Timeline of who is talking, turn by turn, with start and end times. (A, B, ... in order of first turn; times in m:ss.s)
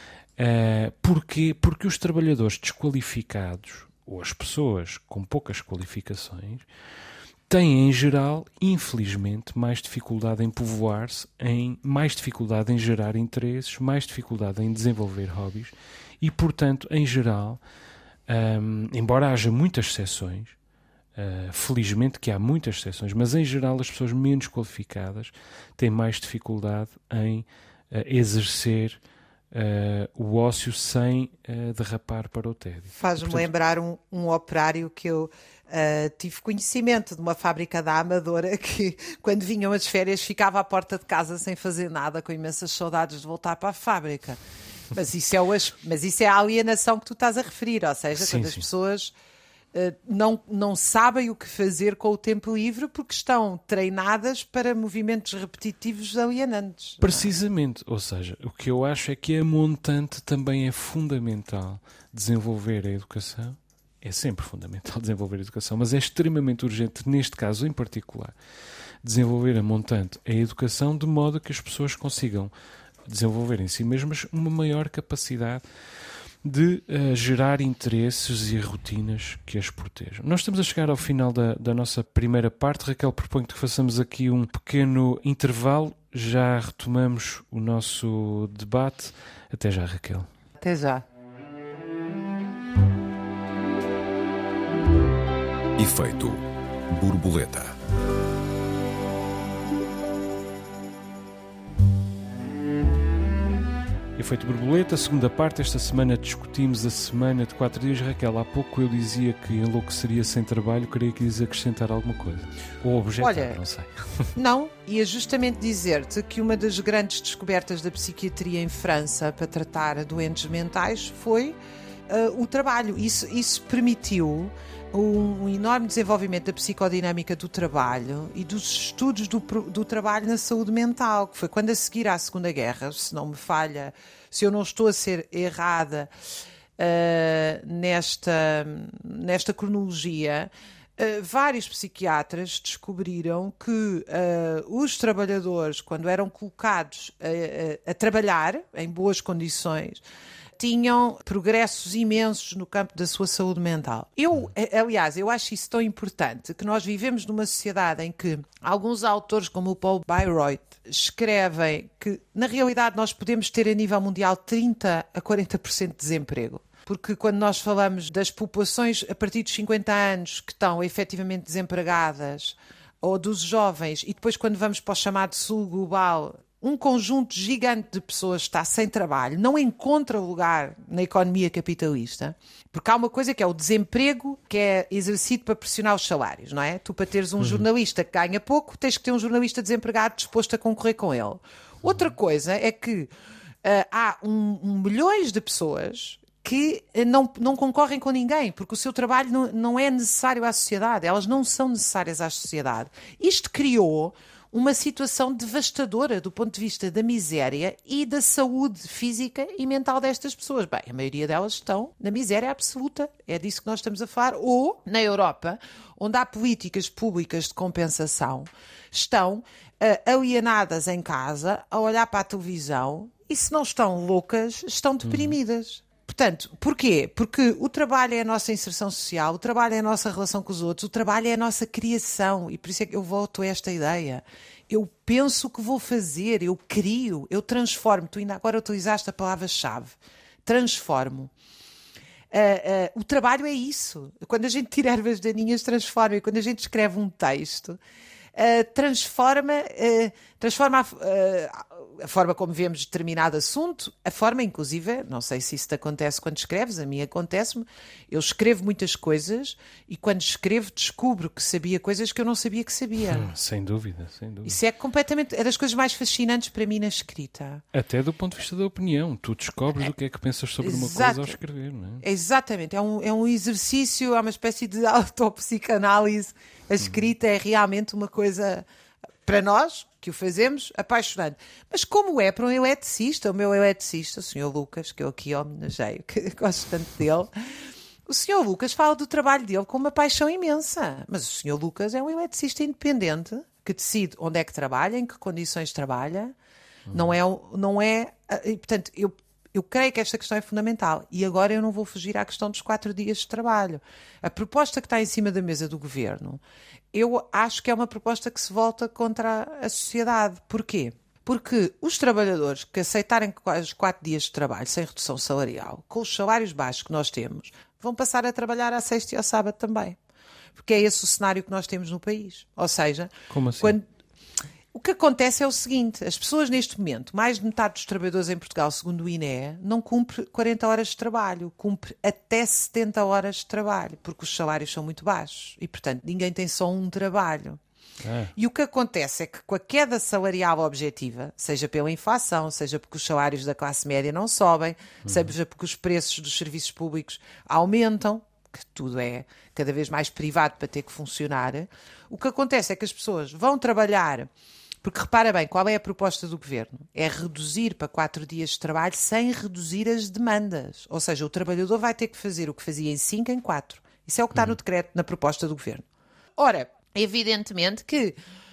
0:00.4-0:06.6 A
0:07.5-0:17.6 A
0:18.3-0:20.6 A
0:21.1-0:29.0 A
0:29.5-0:33.5 A
0:33.0-0:44.4 B
0:44.9-0:49.1 B
0:48.2-0:48.6 A
0:49.7-0:57.3 B
0:57.0-1:08.3 A
1:09.0-1:12.5 A
1:13.0-1:15.6 A
1:16.4-1:30.3 A
1:30.6-1:31.0 B
1:35.8-1:37.7 C
1:44.2-1:54.3 A
1:53.2-1:53.6 B
1:54.3-2:01.6 B
2:02.1-2:16.1 B
2:16.8-2:30.0 B
2:30.6-3:13.1 B
3:13.6-4:01.3 B
3:45.0-3:45.4 A
4:02.3-4:07.8 B
4:08.4-4:23.3 B
4:23.1-4:24.6 A
4:24.4-4:27.6 B
4:27.7-4:32.0 A
4:30.6-4:31.4 B
4:32.0-4:38.6 B
4:39.2-4:47.4 B
4:48.0-4:56.3 B
4:56.9-5:06.4 B
5:06.9-5:20.0 B
5:20.6-5:23.8 B
5:23.3-5:23.8 A
5:24.7-5:37.6 B
5:38.0-5:38.3 A
5:38.3-5:54.3 B
5:54.8-6:05.8 B
6:06.4-6:08.2 B